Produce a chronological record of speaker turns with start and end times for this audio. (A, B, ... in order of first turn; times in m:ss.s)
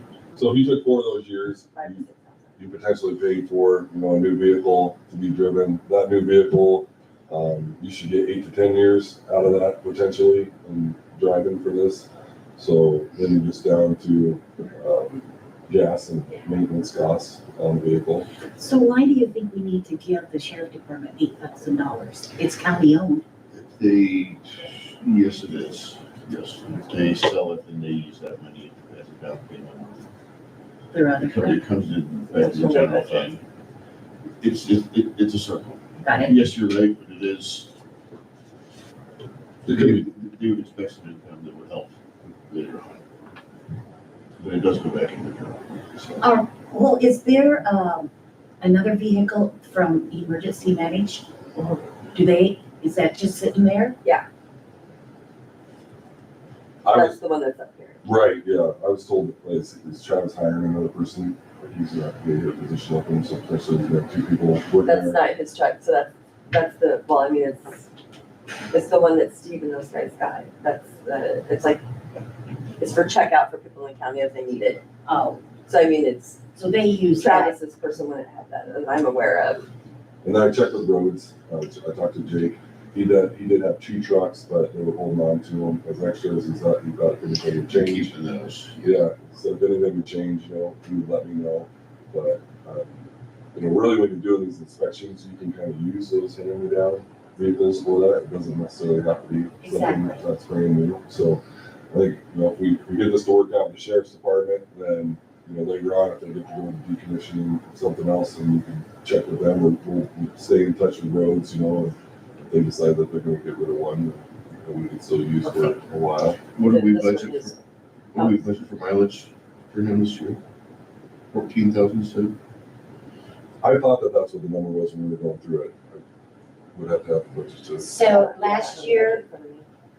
0:00.4-0:02.0 A
0:01.7-0:02.4 B
0:02.6-0:18.3 A
0:18.6-0:23.2 C
0:23.5-0:30.1 D
0:30.9-0:31.7 C
0:31.2-0:33.4 D
0:32.3-0:33.4 B
0:34.4-0:37.7 D
0:36.0-0:36.4 C
0:39.6-0:43.0 D
0:39.7-0:40.0 A
0:44.4-0:46.2 D
0:46.2-0:51.3 C
0:51.6-0:51.8 B
0:52.1-0:54.0 C
0:56.8-0:57.1 A
0:56.9-0:58.0 B
0:58.0-1:05.2 A
1:04.8-1:07.9 B
1:08.7-1:11.8 B
1:12.8-1:14.8 B
1:15.0-1:15.4 C
1:15.7-1:16.4 B
1:16.6-1:17.6 C
1:17.1-1:19.6 B
1:20.2-1:28.1 A
1:27.6-1:29.0 D
1:28.8-1:56.4 A
1:39.6-1:40.2 C
1:56.5-1:57.5 D
1:56.6-1:57.6 B
1:58.1-2:00.4 D
2:01.3-2:02.4 D
2:03.6-2:06.0 A
2:06.7-2:07.9 A
2:07.8-2:09.2 C
2:08.0-2:09.6 B